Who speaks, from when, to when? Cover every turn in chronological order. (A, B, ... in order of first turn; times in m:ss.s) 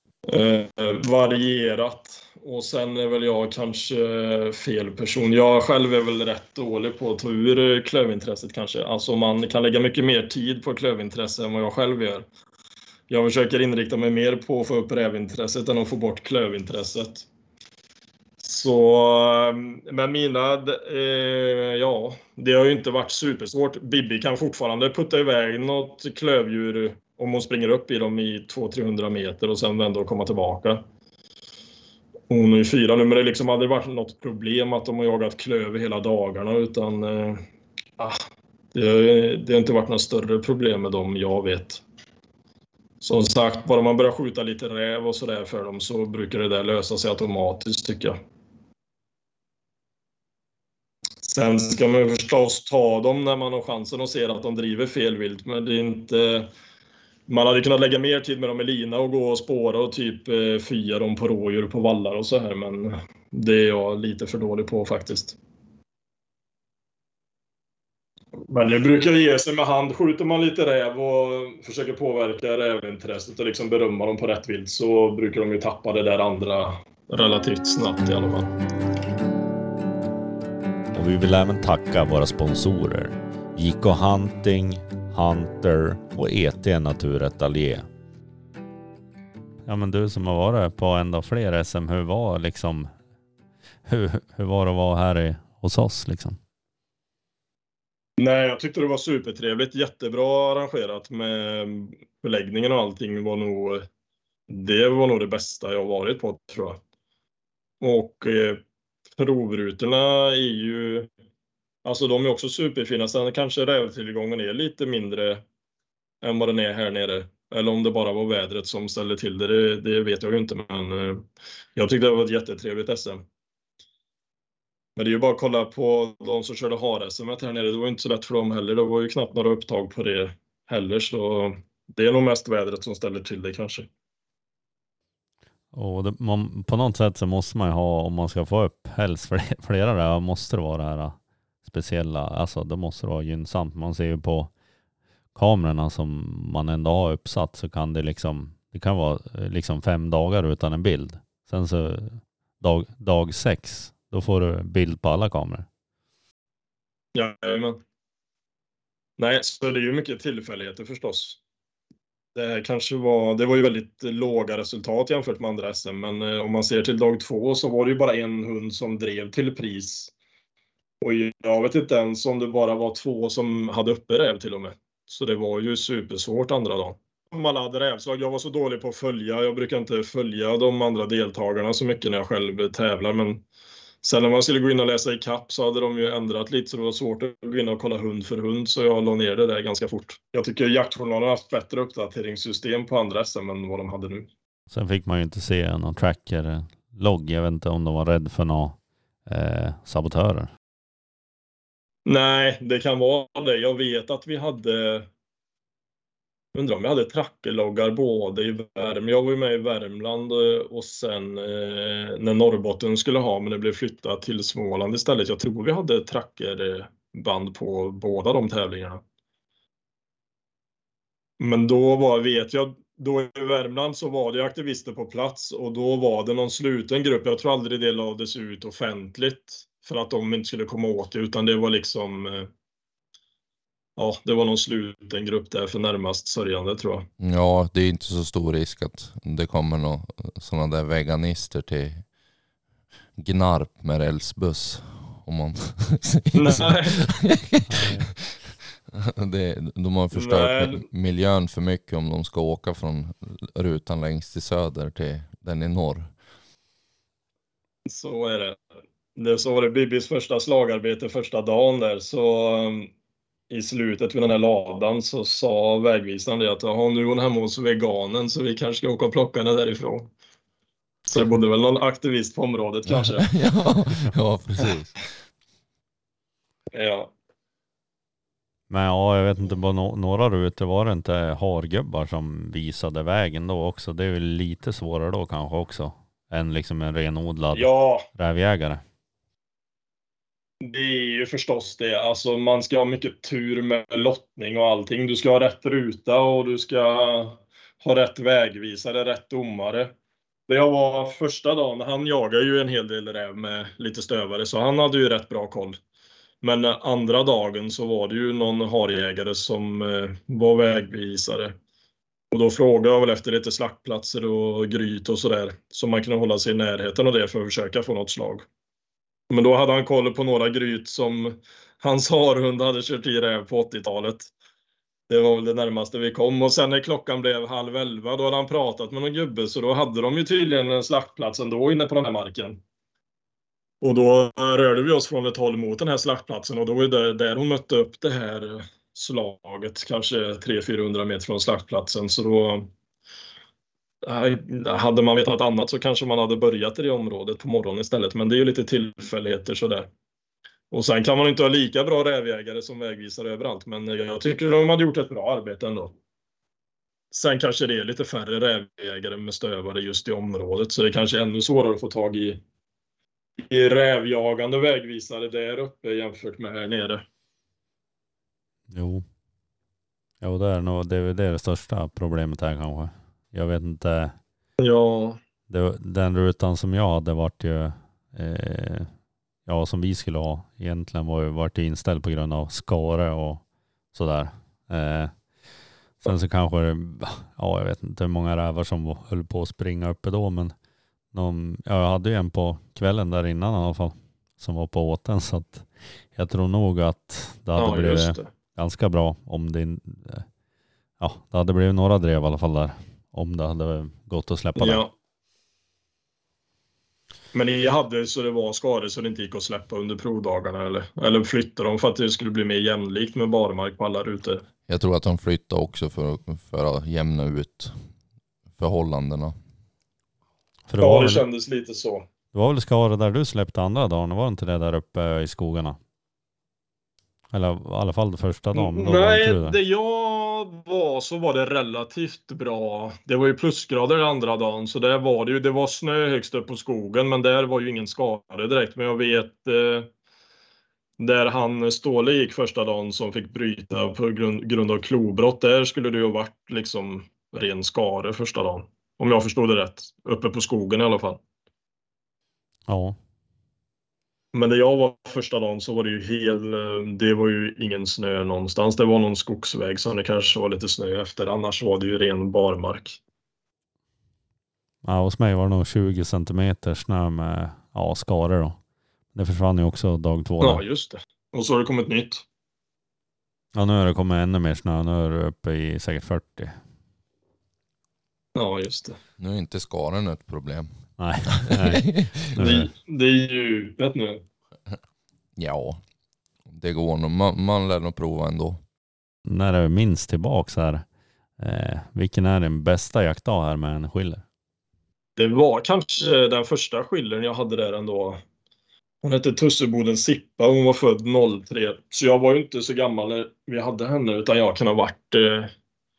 0:00.3-0:12.3 A
0:13.1-0:17.3 A
0:18.4-0:30.8 A
0:32.3-0:37.4 A
0:38.7-0:41.8 A
0:43.0-0:48.2 A
0:51.2-0:56.5 A
0:57.3-1:05.4 A
1:08.5-1:18.5 A
1:20.9-1:27.9 B
1:29.7-1:32.9 B
1:33.9-1:36.4 B
1:38.2-1:43.9 A
1:44.5-1:46.8 A
1:47.8-1:48.6 A
1:49.2-1:51.1 A
1:51.8-1:55.4 A
1:56.2-2:03.2 A
2:05.0-2:13.9 A
2:15.7-2:24.5 B
2:25.4-2:35.7 B
2:37.2-2:37.8 A
2:39.2-2:41.4 A
2:42.4-2:50.1 A
2:51.0-3:03.4 A
3:04.0-3:14.3 A
3:14.7-3:20.5 B
3:22.1-3:25.1 A
3:26.5-3:39.0 A
3:41.4-3:52.5 A
3:54.0-3:57.1 A
3:57.2-4:02.1 C
4:03.2-4:08.4 C
4:06.3-4:07.0 A
4:07.7-4:08.2 B
4:08.9-4:16.1 C
4:10.1-4:10.9 A
4:17.9-4:18.6 A
4:19.2-4:22.9 A
4:23.5-4:30.1 A
4:31.1-4:33.3 A
4:32.9-4:35.1 C
4:36.7-4:37.1 A
4:38.7-4:48.8 B
4:47.5-4:48.1 A
4:50.6-4:59.9 A
5:00.5-5:05.8 A
5:06.4-5:11.6 A
5:12.3-5:18.4 A
5:19.3-5:24.3 A
5:25.1-5:32.6 A
5:33.8-5:42.7 A
5:44.0-5:49.9 A
5:50.7-5:56.0 A
5:57.1-6:02.4 A
6:03.5-6:07.0 A
6:08.7-6:09.0 B
6:10.2-6:14.2 B
6:14.6-6:15.2 A
6:15.5-6:18.9 B
6:19.5-6:25.5 B
6:26.0-6:30.6 B
6:31.1-6:40.3 B
6:37.6-6:38.3 A
6:41.0-6:44.8 B
6:44.6-6:44.9 A
6:47.3-6:54.4 A
6:54.7-6:57.9 C
6:58.6-6:59.4 C
7:00.7-7:01.2 B
7:00.8-7:02.1 A
7:02.3-7:05.8 B
7:07.3-7:09.6 B
7:08.5-7:19.9 A
7:21.0-7:31.2 A
7:32.7-7:33.0 B
7:34.3-7:43.0 A
7:44.8-7:48.6 B
7:49.1-7:50.6 B
7:50.4-7:52.2 A
7:53.6-7:56.6 B
7:58.4-7:59.0 A
7:59.2-8:02.4 C
8:01.0-8:02.7 B
8:02.4-8:04.2 A
8:05.4-8:05.8 C
8:06.5-8:08.6 C
8:09.3-8:10.8 B
8:11.4-8:14.2 B
8:15.2-8:18.2 A
8:19.0-8:25.5 A